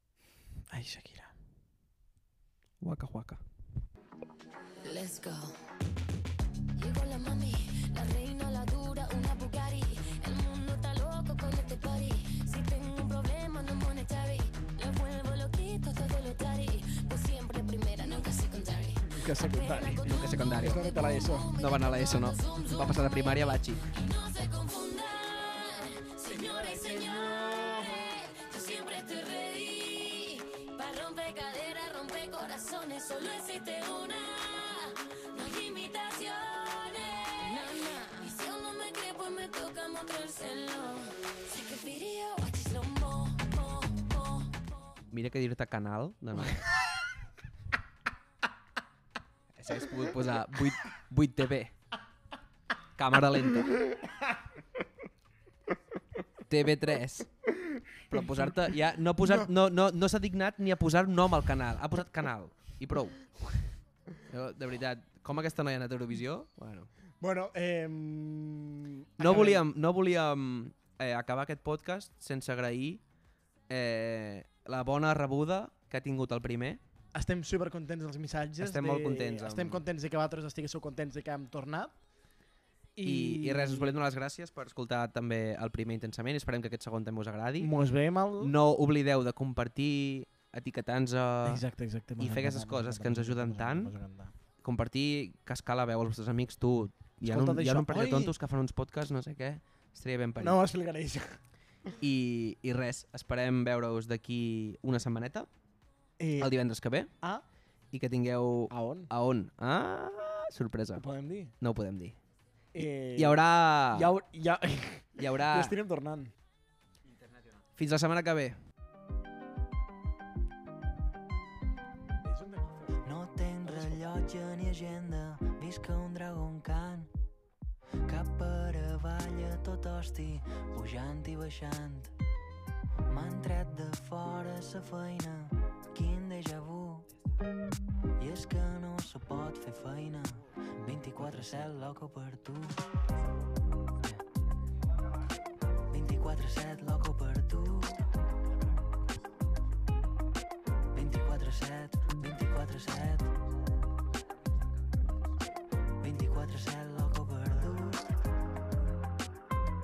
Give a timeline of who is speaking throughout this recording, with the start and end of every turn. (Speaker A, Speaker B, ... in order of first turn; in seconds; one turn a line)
Speaker A: 0.7-1.3
Speaker B: 2.8-3.4
Speaker C: 4.8-5.6
Speaker C: 6.8-44.6
Speaker A: 19.0-21.5
Speaker B: 20.0-20.8
Speaker B: 21.6-23.8
Speaker A: 26.3-28.1
Speaker B: 45.1-46.7
Speaker B: 49.6-51.7
Speaker B: 53.0-53.8
Speaker B: 56.5-57.3
Speaker B: 58.1-63.2
Speaker B: 64.2-66.9
Speaker A: 67.2-69.6
Speaker B: 69.2-73.0
Speaker B: 73.7-76.8
Speaker A: 77.1-81.9
Speaker B: 78.6-79.8
Speaker A: 83.0-84.0
Speaker B: 83.0-87.7
Speaker A: 87.6-88.5
Speaker B: 88.4-91.6
Speaker A: 91.4-94.3
Speaker B: 92.2-93.9
Speaker B: 94.6-100.6
Speaker A: 97.2-98.3
Speaker A: 100.4-101.4
Speaker B: 102.0-105.5
Speaker A: 106.2-106.5
Speaker B: 106.4-107.1
Speaker B: 107.9-111.0
Speaker A: 108.7-109.1
Speaker A: 111.0-111.5
Speaker B: 111.6-112.2
Speaker A: 112.7-116.3
Speaker B: 113.2-114.1
Speaker B: 115.2-115.8
Speaker B: 117.8-118.6
Speaker A: 122.2-123.1
Speaker D: 123.0-127.1
Speaker A: 123.6-124.2
Speaker D: 128.1-132.1
Speaker D: 133.1-137.1
Speaker D: 138.2-142.8
Speaker B: 141.2-141.7
Speaker D: 145.9-148.0
Speaker D: 150.9-153.3
Speaker D: 156.0-158.0